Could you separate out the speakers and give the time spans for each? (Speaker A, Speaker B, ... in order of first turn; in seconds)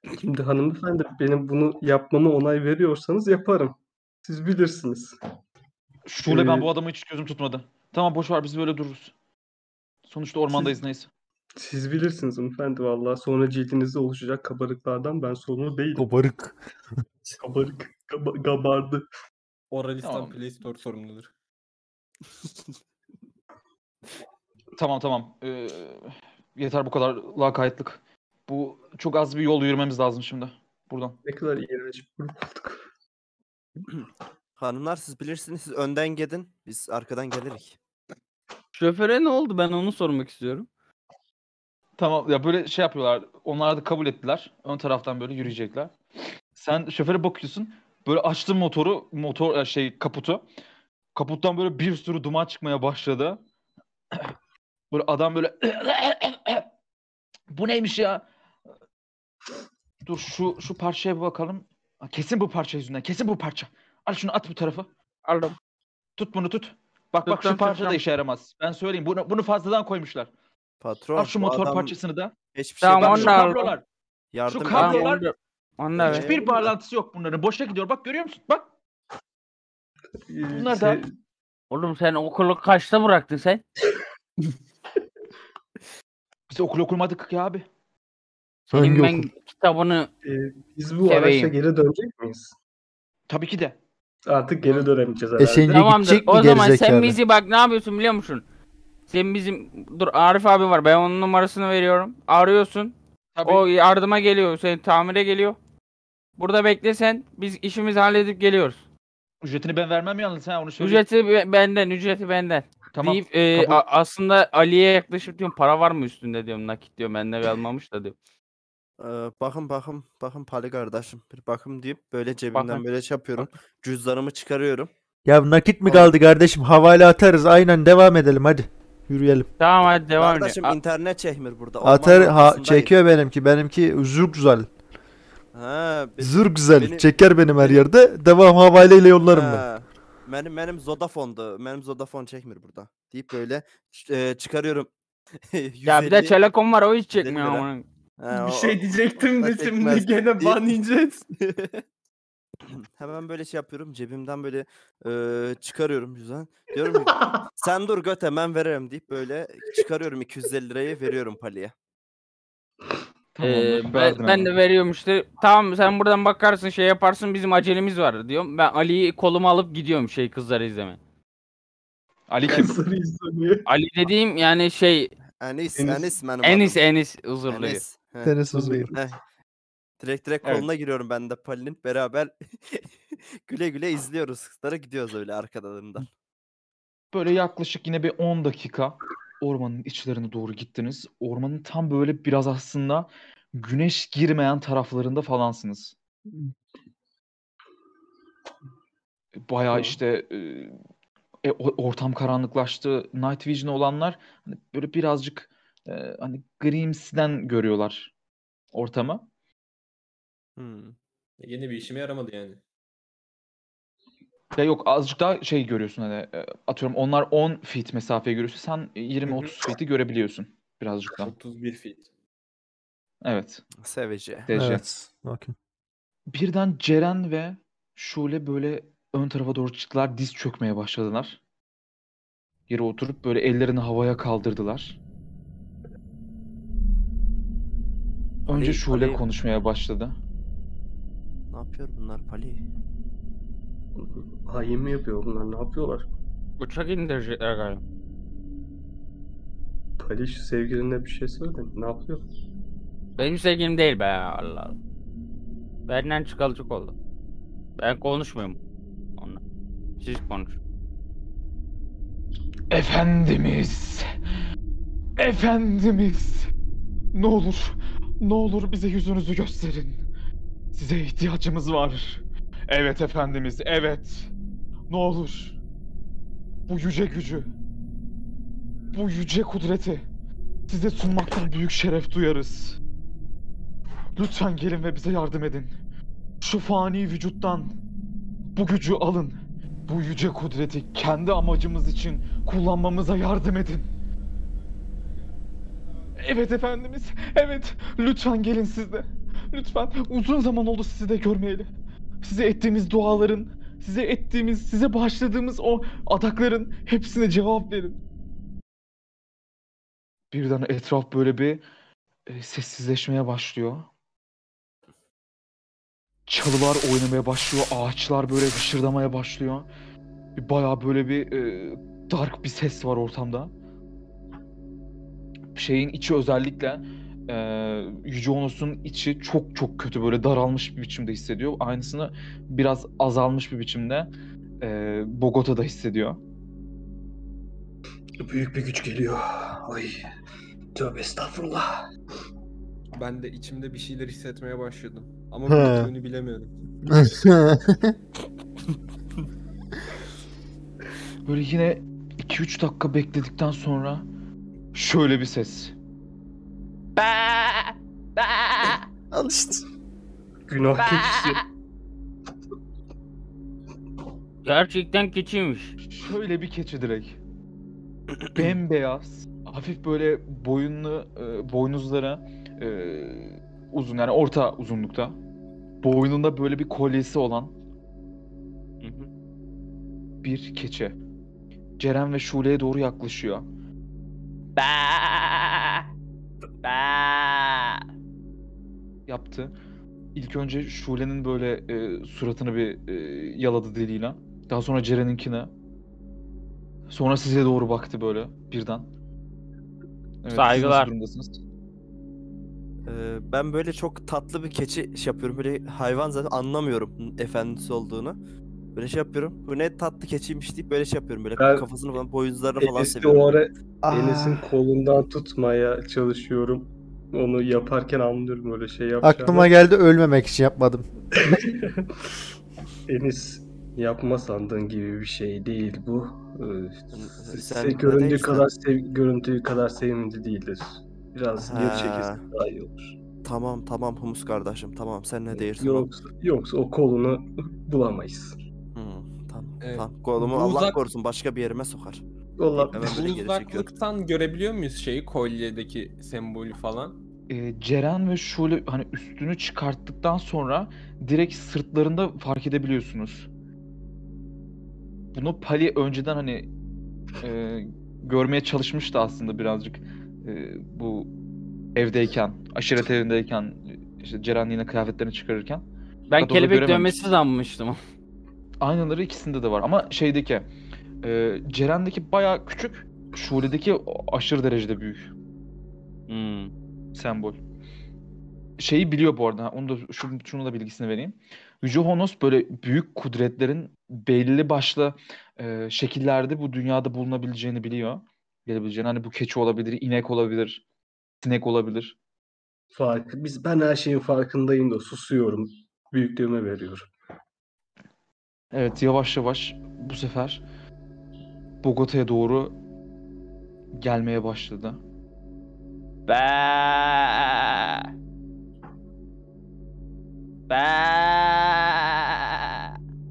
Speaker A: 0.1-5.2, 6.2-6.7, 11.6-16.1, 17.3-19.0, 31.2-32.8, 80.3-81.1, 90.2-92.5, 94.2-95.8, 157.1-157.4, 172.5-173.7, 175.8-176.1, 178.5-178.9, 244.0-246.1, 250.0-252.2, 338.2-340.0, 340.7-341.7, 360.5-361.4, 411.4-411.6, 412.6-419.5, 421.2-421.9, 422.9-432.9, 435.3-438.3, 442.4-443.1, 492.7-496.9
Speaker B: 6.0-9.1, 10.1-11.1, 20.0-20.4, 24.8-31.2, 42.0-45.9, 46.5-50.4, 51.1-53.4, 54.9-56.7, 57.5-58.2, 60.0-64.9, 66.2-70.3, 71.2-72.3, 73.0-73.8, 74.5-75.2, 76.1-78.7, 80.5-81.0, 86.5-87.6, 93.3-93.8, 103.3-103.6, 109.4-111.0, 112.9-113.8, 163.4-164.5, 172.3-172.8, 180.4-180.7, 187.1-195.9, 199.5-200.8, 201.4-208.1, 208.7-209.3, 214.5-221.3, 223.2-223.6, 224.5-224.8, 226.3-231.4, 232.7-235.0, 238.5-240.1, 262.7-264.1, 265.2-266.5, 267.1-270.0, 270.7-274.3, 274.9-275.6, 276.7-277.5, 278.9-280.0, 280.7-282.8, 284.2-285.7, 286.4-287.7, 288.5-289.4, 289.9-293.9, 296.1-301.7, 302.2-308.0, 310.3-311.6, 312.3-313.9, 316.3-319.6, 320.4-323.5, 325.5-334.1, 334.6-336.2, 351.2-354.0, 354.7-355.7, 365.9-367.1, 368.3-375.1, 375.8-377.5, 380.2-380.9, 381.8-383.4, 389.1-389.5, 390.1-395.5, 396.9-398.9, 400.2-401.4, 447.3-453.3, 455.1-456.5, 457.2-461.1, 461.8-465.6, 466.2-467.1, 468.6-470.5, 471.0-475.1, 476.9-477.4, 478.6-490.6, 491.2-491.9, 498.5-500.4, 501.6-502.5, 503.8-504.8
Speaker C: 15.9-16.6, 88.7-89.3, 95.4-97.2, 125.3-129.5, 131.8-134.7, 136.2-139.6, 178.2-178.9, 224.5-225.5, 345.5-345.9, 346.9-347.9, 359.1-359.6, 413.8-414.5, 419.0-420.9
Speaker D: 19.7-21.3, 148.3-151.2, 211.4-212.6, 221.2-222.1, 342.9-346.5, 439.6-440.8, 442.7-446.9
Speaker E: 34.6-37.8, 70.8-71.9, 72.5-73.4, 74.3-75.1, 76.0-76.7, 119.0-124.9, 125.9-126.1, 130.2-132.9, 135.5-137.1, 137.6-137.8, 139.3-144.9, 145.5-146.4, 147.2-147.7, 148.2-150.8, 151.4-151.8, 152.7-161.7, 175.4-176.8, 177.5-178.4, 178.9-179.2, 180.0-186.1, 210.6-210.9, 223.8-224.5, 238.5-239.2, 241.5-242.6, 402.9-408.2, 408.7-413.4, 426.9-428.5, 431.4-432.2, 433.2-435.9, 438.7-442.0, 442.7-443.7
Speaker F: 38.7-40.7, 65.2-65.5, 67.2-68.0, 72.8-73.7, 74.7-76.3, 81.7-83.6, 88.7-90.1, 91.1-91.5, 95.7-98.4, 99.1-102.9, 103.5-105.6, 106.4-108.8, 110.8-118.1, 122.5-122.8, 129.6-130.8, 145.8-147.8, 163.4-171.0, 173.7-175.1, 176.4-177.8, 246.6-247.8, 253.2-254.7, 255.9-256.9, 257.8-258.6, 260.0-260.6, 357.0-358.8, 360.8-361.4, 364.4-365.7, 378.8-379.1, 384.6-385.8, 386.6-387.8, 400.3-400.9, 466.1-467.8, 476.1-476.5, 506.1-507.9, 510.5-512.5